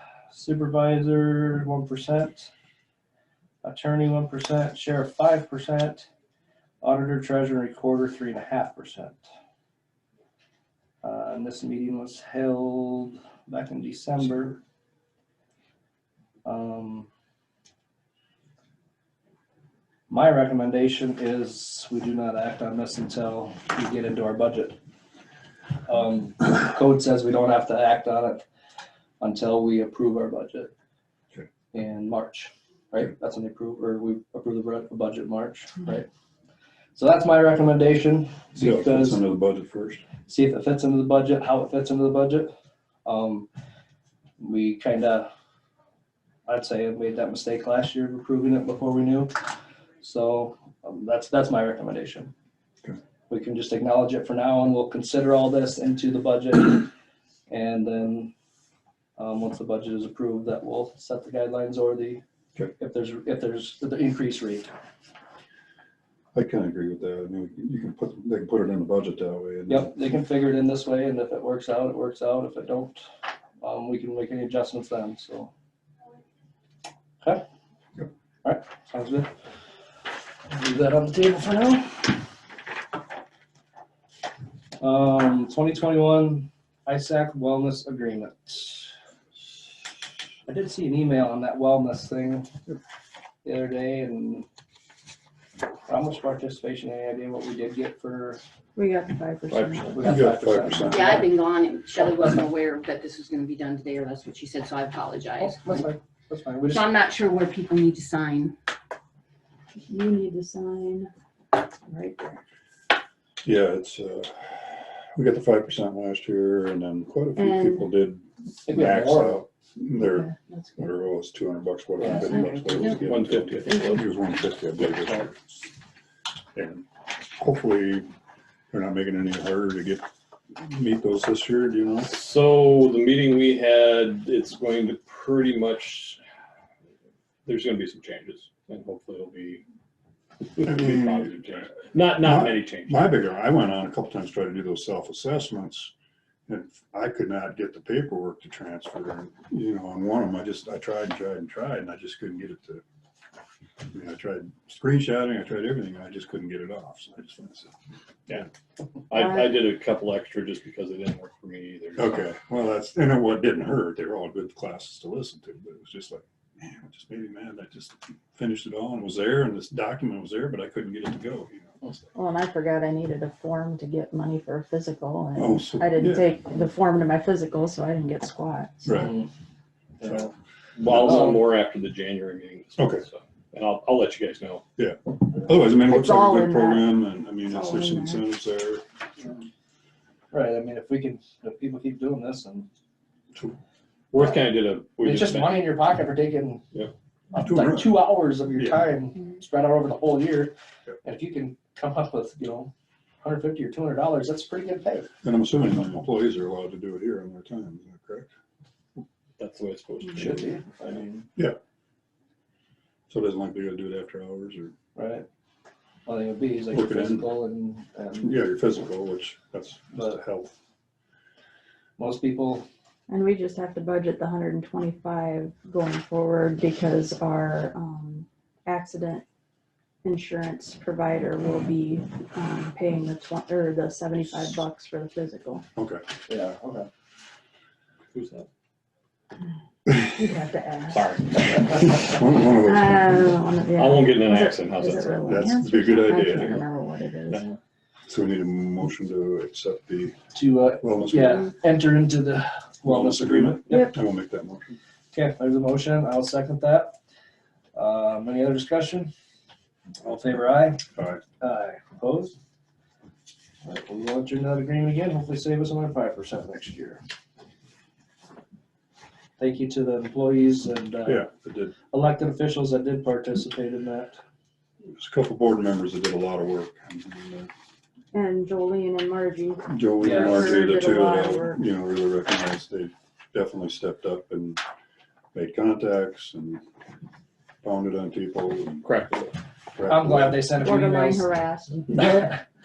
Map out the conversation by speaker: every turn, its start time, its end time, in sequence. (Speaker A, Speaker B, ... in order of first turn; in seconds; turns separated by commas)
Speaker A: 0.3-2.5, Speaker A: 3.6-6.1, Speaker A: 6.8-9.2, Speaker A: 11.0-14.6, Speaker A: 16.4-17.1, Speaker A: 20.1-24.8, Speaker A: 25.9-28.4, Speaker A: 29.2-30.7, Speaker A: 31.7-36.1, Speaker A: 36.9-39.2, Speaker B: 38.5-40.0, Speaker A: 40.3-42.5, Speaker A: 43.0-43.5, Speaker A: 44.4-45.3, Speaker A: 46.5-49.3, Speaker A: 50.0-52.3, Speaker A: 53.3-56.9, Speaker A: 57.5-58.3, Speaker A: 59.2-62.2, Speaker A: 62.8-64.7, Speaker B: 66.3-69.9, Speaker A: 69.7-73.0, Speaker A: 73.6-75.5, Speaker A: 78.4-79.3, Speaker A: 80.5-82.1, Speaker A: 84.8-88.9, Speaker A: 90.5-92.5, Speaker A: 93.4-94.5, Speaker A: 95.9-98.4, Speaker C: 98.8-100.2, Speaker D: 99.5-100.2, Speaker A: 99.9-101.2, Speaker B: 100.0-101.3, Speaker E: 100.9-105.7, Speaker A: 105.4-106.9, Speaker E: 106.7-108.5, Speaker C: 109.9-111.1, Speaker C: 111.9-112.4, Speaker B: 113.4-125.4, Speaker C: 117.3-117.9, Speaker A: 118.7-119.4, Speaker C: 120.0-120.7, Speaker A: 122.0-122.5, Speaker D: 122.9-124.1, Speaker B: 126.5-128.1, Speaker B: 128.7-130.0, Speaker B: 130.6-132.1, Speaker D: 132.1-136.2, Speaker D: 137.4-139.6, Speaker D: 140.5-143.0, Speaker B: 140.6-141.6, Speaker B: 142.2-145.9, Speaker B: 146.5-152.8, Speaker B: 153.9-157.7, Speaker D: 159.1-162.3, Speaker B: 162.0-172.0, Speaker C: 172.1-178.9, Speaker B: 175.4-176.3, Speaker B: 178.8-179.2, Speaker A: 178.9-179.3, Speaker A: 180.0-180.3, Speaker B: 180.0-180.3, Speaker D: 180.8-184.6, Speaker B: 180.8-181.4, Speaker A: 180.9-181.4, Speaker B: 182.8-183.0, Speaker B: 184.8-188.8, Speaker C: 185.8-188.2, Speaker A: 190.3-192.7, Speaker D: 194.1-195.9, Speaker A: 195.0-196.6, Speaker A: 197.3-202.7, Speaker B: 197.4-198.0, Speaker B: 198.6-198.8, Speaker A: 203.2-205.1, Speaker B: 205.2-208.3, Speaker D: 209.4-210.6, Speaker A: 210.1-211.3, Speaker B: 213.1-214.7, Speaker A: 214.9-215.2, Speaker A: 216.1-218.4, Speaker B: 216.7-217.3, Speaker B: 218.2-220.5, Speaker A: 222.0-222.7, Speaker C: 223.1-229.2, Speaker C: 230.0-235.6, Speaker B: 235.8-236.0, Speaker A: 236.3-236.9, Speaker D: 238.1-238.5, Speaker B: 239.9-240.2, Speaker C: 240.0-241.1, Speaker D: 240.9-242.0, Speaker B: 241.7-243.3, Speaker C: 242.4-247.5, Speaker D: 243.7-245.3, Speaker B: 245.3-246.6, Speaker D: 247.3-247.6, Speaker B: 248.1-250.2, Speaker A: 250.3-253.9, Speaker B: 250.8-251.5, Speaker B: 252.8-254.8, Speaker A: 255.1-256.9, Speaker A: 257.7-259.1, Speaker A: 260.0-260.8, Speaker B: 260.9-261.2, Speaker A: 261.4-262.4, Speaker A: 263.6-267.0, Speaker A: 269.4-271.2, Speaker B: 271.0-271.7, Speaker A: 271.9-274.2, Speaker B: 274.9-277.5, Speaker C: 278.1-281.6, Speaker B: 279.7-284.6, Speaker A: 280.0-280.6, Speaker B: 285.3-286.6, Speaker B: 287.6-288.9, Speaker D: 288.8-289.3, Speaker B: 289.7-290.5, Speaker A: 289.9-291.3, Speaker C: 290.6-292.0, Speaker A: 291.9-292.4